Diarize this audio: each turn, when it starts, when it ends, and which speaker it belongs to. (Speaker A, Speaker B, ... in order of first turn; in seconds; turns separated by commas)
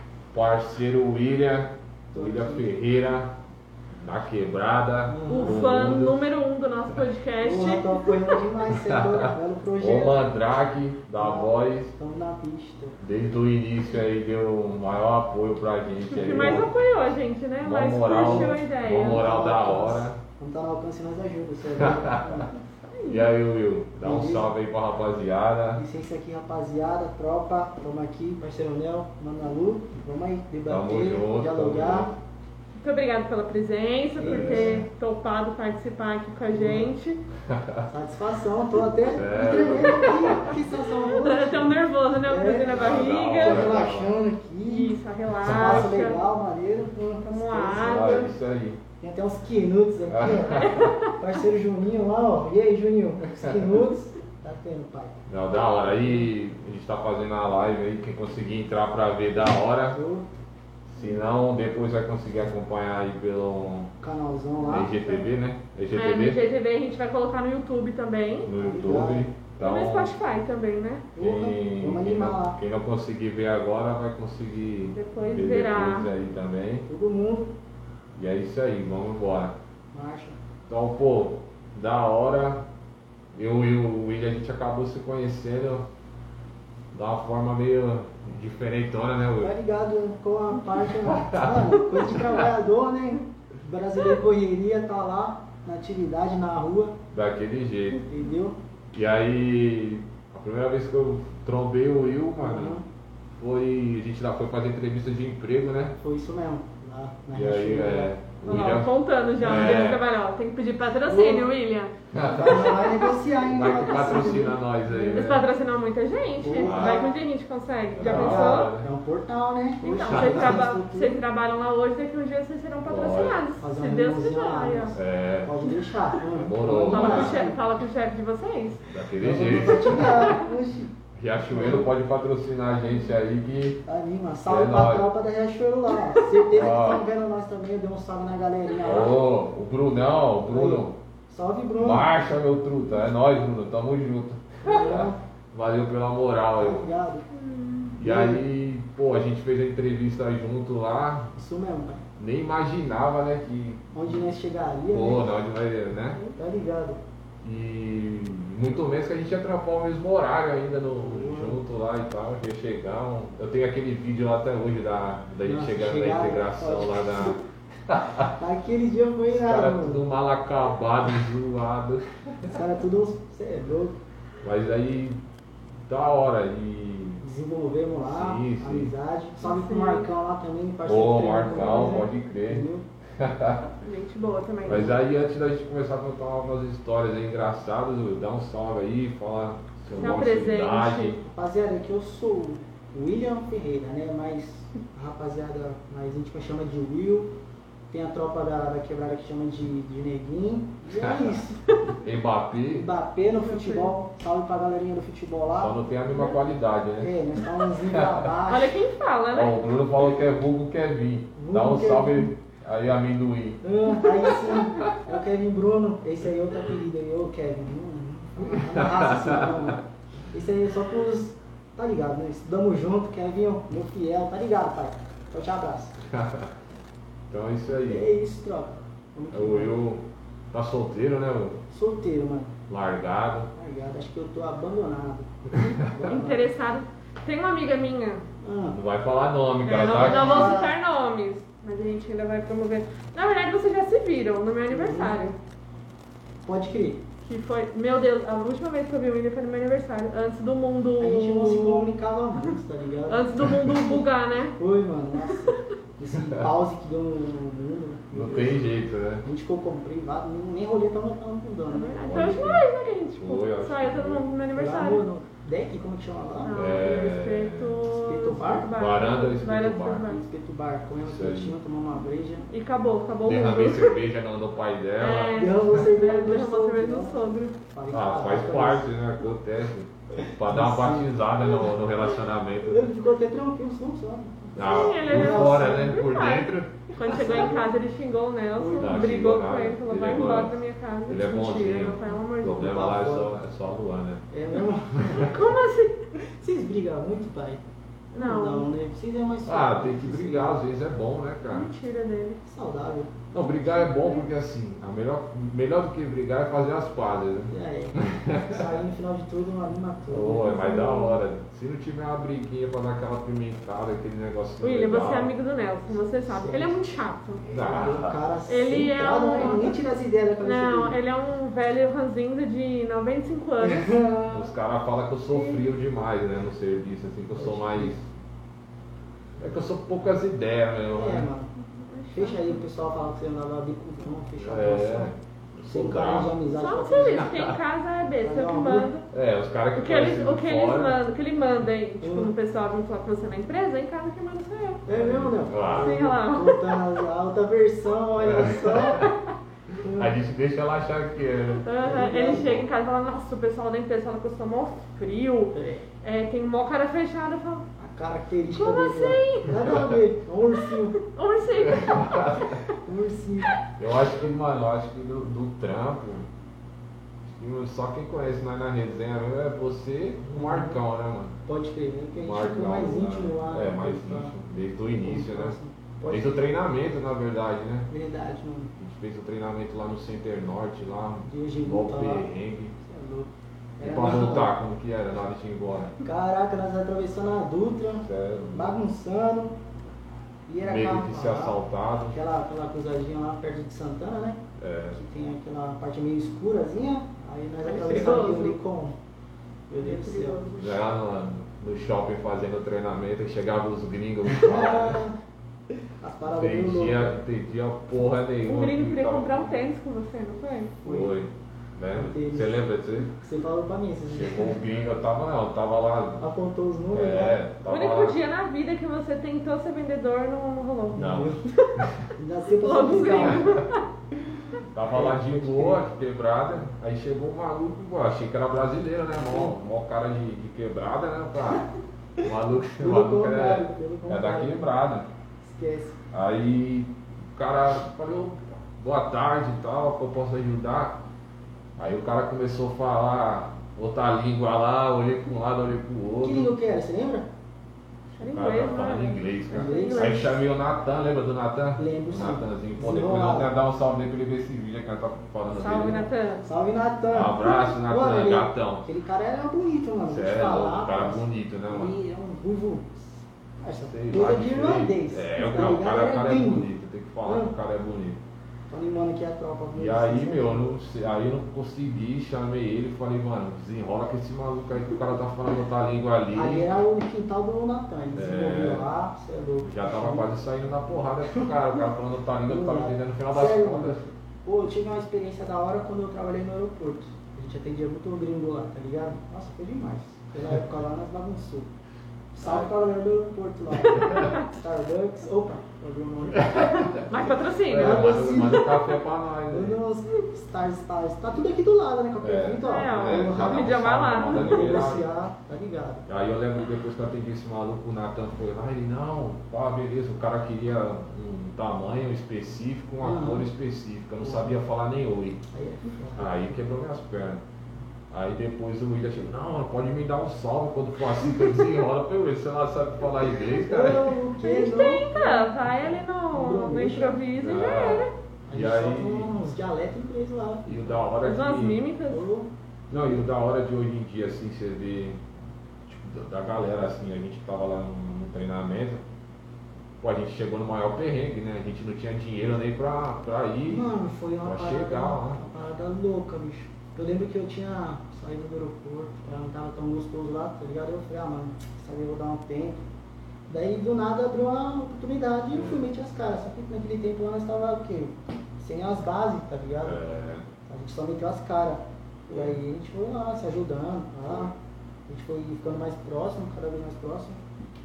Speaker A: 0.3-3.4, Speaker B: 2.1-2.7, Speaker A: 3.9-6.2, Speaker B: 5.1-5.6, Speaker C: 5.3-8.4, Speaker B: 7.4-10.2, Speaker A: 8.7-11.9, Speaker B: 11.2-13.0, Speaker A: 13.0-16.7, Speaker B: 16.1-16.8, Speaker C: 16.1-19.3, Speaker A: 17.6-20.2, Speaker B: 18.1-22.5, Speaker A: 21.8-22.5, Speaker C: 22.9-23.3, Speaker A: 23.0-25.8, Speaker B: 24.0-24.5, Speaker B: 25.8-32.1, Speaker A: 30.7-32.1, Speaker C: 32.8-37.2, Speaker B: 34.2-34.9, Speaker A: 34.3-34.8, Speaker B: 36.5-36.9, Speaker A: 37.5-37.9, Speaker B: 37.9-47.9, Speaker A: 39.1-40.6, Speaker C: 39.4-43.8, Speaker A: 42.7-44.1, Speaker C: 44.6-46.2, Speaker A: 45.4-46.0, Speaker C: 47.3-48.3, Speaker A: 47.7-48.8, Speaker B: 49.0-55.2, Speaker A: 50.1-50.9, Speaker C: 50.5-51.1, Speaker A: 55.3-60.0, Speaker B: 59.9-60.3, Speaker A: 60.9-63.9, Speaker B: 64.0-65.0, Speaker A: 64.7-66.4, Speaker C: 66.0-68.5, Speaker A: 68.5-70.2, Speaker B: 68.6-69.3, Speaker C: 69.6-71.1, Speaker B: 71.1-72.6, Speaker A: 71.2-76.9, Speaker C: 75.0-76.1, Speaker B: 76.9-77.5, Speaker A: 78.2-79.6, Speaker B: 79.9-80.4, Speaker A: 80.7-82.7, Speaker A: 83.3-85.9, Speaker A: 86.9-89.6, Speaker B: 89.4-97.0, Speaker A: 91.0-92.4, Speaker A: 97.1-98.0, Speaker B: 98.1-98.6, Speaker A: 98.9-102.8, Speaker B: 102.4-102.8, Speaker A: 103.4-106.0, Speaker B: 106.0-108.1, Speaker A: 107.3-110.0, Speaker C: 108.5-112.0, Speaker B: 111.1-111.5, Speaker A: 112.1-115.5, Speaker B: 112.2-115.3, Speaker C: 112.5-113.1, Speaker C: 113.6-114.5, Speaker C: 115.1-118.7, Speaker B: 116.4-117.2, Speaker A: 116.6-117.1, Speaker A: 118.0-118.9, Speaker B: 118.0-121.2, Speaker C: 119.8-125.0, Speaker A: 119.9-120.7, Speaker A: 122.8-123.4, Speaker B: 123.6-127.6, Speaker A: 125.0-125.5, Speaker A: 126.3-127.5, Speaker C: 126.8-128.8, Speaker A: 128.9-130.4, Speaker B: 129.2-130.9, Speaker C: 129.9-130.4, Speaker A: 131.2-133.8, Speaker B: 131.5-131.9, Speaker B: 133.9-139.2, Speaker A: 134.5-135.1, Speaker A: 136.5-137.0, Speaker A: 138.8-141.0, Speaker B: 140.5-142.1, Speaker A: 141.8-146.9, Speaker B: 144.6-145.2, Speaker B: 146.6-147.3, Speaker C: 147.3-147.9, Speaker B: 148.0-148.4, Speaker A: 148.0-151.3, Speaker B: 151.3-152.0, Speaker A: 152.2-153.8, Speaker B: 153.9-155.3, Speaker A: 154.9-156.2, Speaker B: 156.2-157.0, Speaker A: 157.4-168.3, Speaker B: 161.0-161.6, Speaker B: 165.5-167.4, Speaker B: 168.4-170.0, Speaker A: 169.3-172.6, Speaker B: 172.5-174.0, Speaker A: 174.4-175.2, Speaker A: 175.9-177.2, Speaker B: 177.2-182.9, Speaker A: 178.1-178.9, Speaker C: 179.4-180.1, Speaker A: 180.8-183.7, Speaker C: 183.8-185.0, Speaker A: 184.6-191.2, Speaker C: 190.0-191.2, Speaker B: 191.2-197.3, Speaker B: 197.9-201.6, Speaker A: 202.0-202.9, Speaker B: 202.8-205.8, Speaker C: 203.4-203.9, Speaker A: 205.5-207.2, Speaker B: 207.0-208.8, Speaker A: 207.9-208.3, Speaker C: 208.5-209.6, Speaker A: 209.3-213.6, Speaker B: 211.4-212.3, Speaker B: 213.6-226.0, Speaker A: 214.2-214.7, Speaker A: 218.4-219.8, Speaker A: 226.0-226.5, Speaker A: 227.3-228.1, Speaker B: 227.9-229.8, Speaker A: 229.3-231.6, Speaker B: 231.7-232.5, Speaker A: 232.7-233.5, Speaker B: 233.6-236.5, Speaker A: 235.5-235.8, Speaker C: 235.7-238.3, Speaker B: 238.4-238.8, Speaker A: 238.7-240.6, Speaker C: 239.7-245.3, Speaker B: 239.9-240.8, Speaker B: 244.7-245.3, Speaker B: 246.5-247.0, Speaker C: 247.2-251.9, Speaker B: 251.0-254.0, Speaker C: 253.1-254.6, Speaker B: 254.6-262.1, Speaker C: 255.2-255.6, Speaker A: 256.2-256.5, Speaker A: 258.1-259.2, Speaker C: 261.7-265.1, Speaker A: 262.0-262.6, Speaker A: 263.2-264.2, Speaker B: 264.6-266.7, Speaker C: 266.4-270.2, Speaker A: 266.5-267.8, Speaker B: 267.9-268.7, Speaker A: 268.7-270.1, Speaker B: 270.1-272.5, Speaker A: 271.0-271.6, Speaker C: 272.5-274.0, Speaker A: 273.2-275.6, Speaker C: 275.0-277.6, Speaker B: 275.4-278.9, Speaker A: 277.9-282.9, Speaker B: 280.2-281.1, Speaker B: 282.6-285.9, Speaker A: 284.6-286.7, Speaker C: 284.6-292.7, Speaker B: 287.0-287.7, Speaker B: 288.6-289.0, Speaker A: 288.8-290.6, Speaker A: 291.1-294.2, Speaker B: 292.5-293.3, Speaker B: 294.3-295.4, Speaker A: 294.9-295.3, Speaker C: 295.2-295.9, Speaker B: 296.1-297.6, Speaker B: 298.1-300.6, Speaker C: 298.1-298.7, Speaker A: 299.5-301.7, Speaker C: 301.5-302.4, Speaker B: 302.4-303.1, Speaker A: 303.3-308.7, Speaker C: 303.7-304.2, Speaker B: 307.5-311.0, Speaker A: 310.1-315.3, Speaker C: 310.6-311.1, Speaker C: 314.6-317.5, Speaker B: 315.9-316.8, Speaker B: 317.5-321.0, Speaker A: 317.5-318.2, Speaker C: 318.5-319.8, Speaker C: 320.4-324.0, Speaker B: 323.6-324.5, Speaker A: 324.3-328.1, Speaker B: 327.4-327.9, Speaker A: 329.4-331.3, Speaker B: 330.9-331.5, Speaker C: 331.6-332.6, Speaker B: 332.1-335.1, Speaker A: 334.4-336.4, Speaker B: 335.7-337.3, Speaker C: 336.5-339.1, Speaker A: 337.2-337.6, Speaker B: 338.2-338.9, Speaker A: 339.1-341.0, Speaker C: 339.8-344.8, Speaker B: 342.0-342.3, Speaker B: 344.9-349.1, Speaker A: 344.9-346.0, Speaker C: 345.8-347.0, Speaker A: 348.2-349.2, Speaker B: 349.8-350.1, Speaker A: 349.8-351.7, Speaker C: 351.6-357.6, Speaker B: 351.8-352.5, Speaker A: 352.3-352.7, Speaker B: 355.5-355.8, Speaker B: 357.8-361.0, Speaker C: 358.6-359.8, Speaker C: 360.6-362.8, Speaker A: 361.6-362.6, Speaker B: 362.8-363.5, Speaker A: 363.8-366.3, Speaker A: 367.2-371.4, Speaker B: 370.2-370.8, Speaker B: 371.5-374.3, Speaker A: 372.2-377.9, Speaker B: 375.0-376.5, Speaker B: 377.9-378.8, Speaker A: 378.8-382.7, Speaker B: 381.2-382.3, Speaker B: 382.8-384.5, Speaker A: 383.8-386.0, Speaker B: 386.0-389.6, Speaker A: 388.0-388.8, Speaker B: 390.5-394.4, Speaker A: 390.6-392.1, Speaker A: 394.6-395.0, Speaker B: 394.9-399.0, Speaker C: 397.6-398.6, Speaker A: 397.8-398.3, Speaker B: 399.7-400.4, Speaker C: 399.8-400.6, Speaker A: 400.6-405.0, Speaker B: 404.3-405.2, Speaker B: 405.8-407.2, Speaker A: 406.3-409.6, Speaker C: 408.4-410.8, Speaker B: 410.8-411.2, Speaker A: 410.9-413.2, Speaker B: 411.9-412.6, Speaker B: 413.2-414.6, Speaker A: 414.1-416.2, Speaker B: 416.2-417.4, Speaker A: 416.9-418.2, Speaker C: 417.7-421.9, Speaker B: 420.9-421.4, Speaker A: 420.9-422.0, Speaker B: 422.1-423.6, Speaker C: 422.6-423.8, Speaker A: 423.2-423.5, Speaker A: 424.7-431.7, Speaker B: 424.9-425.8, Speaker B: 429.3-429.6, Speaker A: 432.2-435.1, Speaker B: 432.8-434.6, Speaker B: 435.4-436.0, Speaker A: 436.1-441.0, Speaker A: 441.8-446.5, Speaker B: 446.2-447.3, Speaker A: 448.1-456.1, Speaker C: 448.2-450.4, Speaker B: 449.5-450.3, Speaker B: 451.8-453.5, Speaker C: 455.5-456.4, Speaker B: 456.4-466.7, Speaker A: 457.1-458.9, Speaker A: 460.1-462.0, Speaker A: 463.9-468.2, Speaker B: 467.2-467.5, Speaker B: 468.7-470.7, Speaker A: 469.8-476.7, Speaker B: 476.3-480.3, Speaker A: 478.1-478.9, Speaker A: 479.6-484.1, Speaker B: 482.5-491.7, Speaker B: 492.3-496.9, Speaker A: 492.4-492.7, Speaker A: 493.8-494.3, Speaker A: 496.3-499.8, Speaker C: 497.0-498.9, Speaker B: 497.8-498.7, Speaker B: 499.5-506.1, Speaker A: 502.2-505.1, Speaker C: 502.6-504.7, Speaker A: 506.1-515.4, Speaker B: 513.0-513.5, Speaker B: 514.2-514.6, Speaker B: 515.5-516.3, Speaker A: 516.2-517.4, Speaker A: 518.1-524.2, Speaker B: 523.5-525.7, Speaker C: 524.4-528.1, Speaker B: 526.3-527.2, Speaker A: 527.4-529.3, Speaker B: 528.5-530.8, Speaker A: 530.6-531.8, Speaker C: 531.2-532.3, Speaker B: 532.1-532.5, Speaker A: 532.9-535.2, Speaker A: 535.9-539.0, Speaker A: 540.0-543.9, Speaker B: 543.7-552.8, Speaker A: 544.4-545.4, Speaker B: 553.5-560.1, Speaker A: 555.5-555.8, Speaker A: 559.8-560.5, Speaker B: 560.7-564.6, Speaker A: 562.3-562.6, Speaker B: 565.1-567.4